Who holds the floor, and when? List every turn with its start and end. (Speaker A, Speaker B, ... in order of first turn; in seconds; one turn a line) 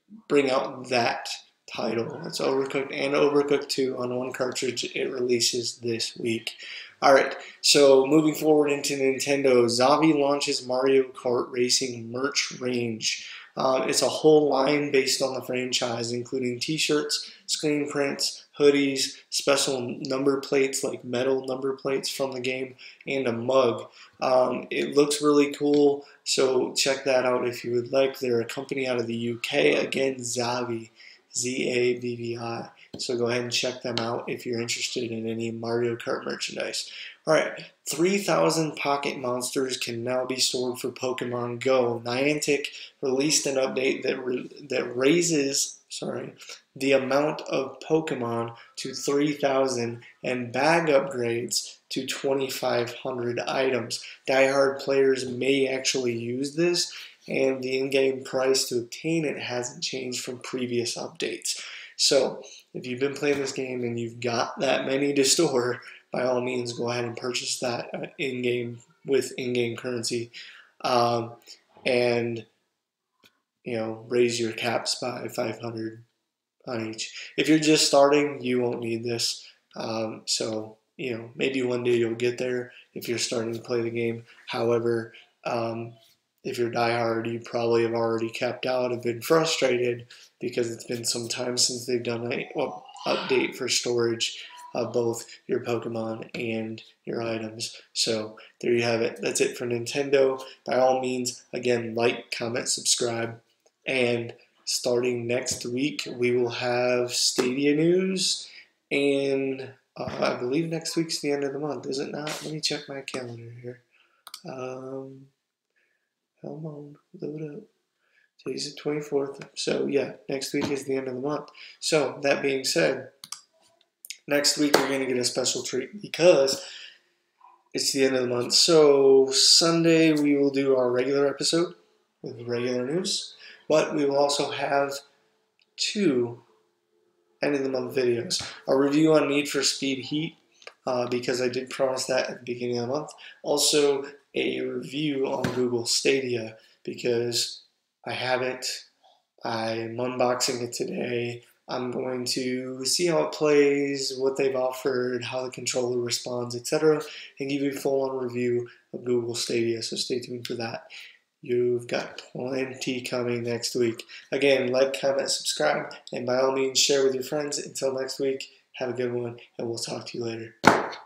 Speaker A: 0.3-72.5
Speaker A: 73.6-76.0
Speaker A: 76.7-113.8
Speaker A: 114.4-115.3
Speaker A: 116.4-117.7
Speaker A: 118.4-123.1
Speaker A: 124.2-126.6
Speaker A: 127.7-135.0
Speaker A: 135.8-136.4
Speaker A: 137.4-148.9
Speaker A: 149.4-160.9
Speaker A: 161.4-170.8